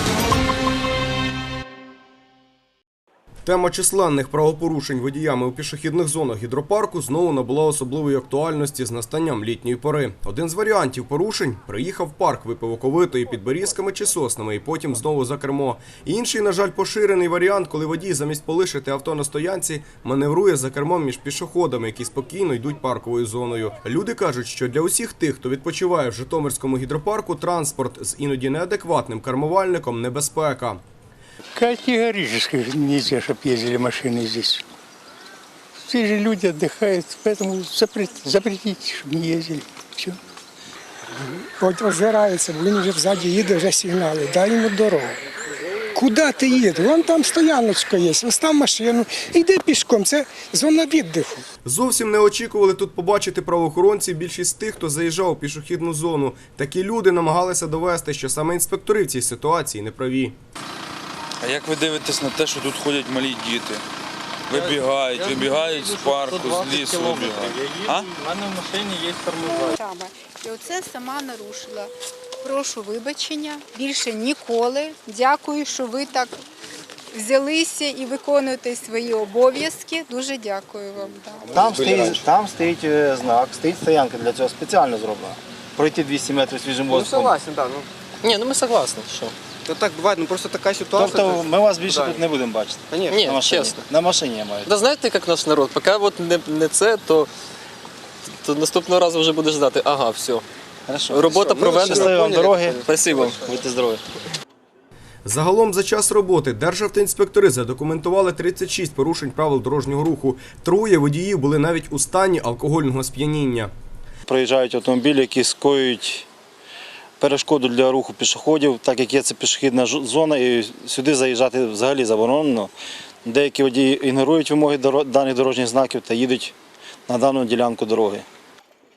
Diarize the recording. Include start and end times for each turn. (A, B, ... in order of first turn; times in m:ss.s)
0:03.4-0:30.8 A
0:31.6-0:34.6 B
0:35.8-0:40.2 B
0:41.6-0:45.2 C
0:45.9-0:51.4 C
0:51.6-1:00.4 A
1:01.4-1:03.8 D
1:04.5-1:08.1 D
1:07.1-1:09.6 E
1:09.6-1:11.9 F
1:12.4-1:16.4 F
1:17.1-1:21.6 F
1:21.5-1:27.4 E
1:21.7-1:22.1 G
1:26.9-1:29.3 H
1:29.6-1:31.4 G
1:31.0-1:34.7 E
1:33.1-1:33.8 H
1:34.6-1:37.3 H
1:38.4-1:40.4 H
1:40.9-1:44.0 E
1:41.1-1:43.4 H
1:45.2-1:53.7 A
1:54.3-1:56.3 E
1:57.2-2:02.7 E
2:03.2-2:06.5 E
2:07.1-2:08.2 E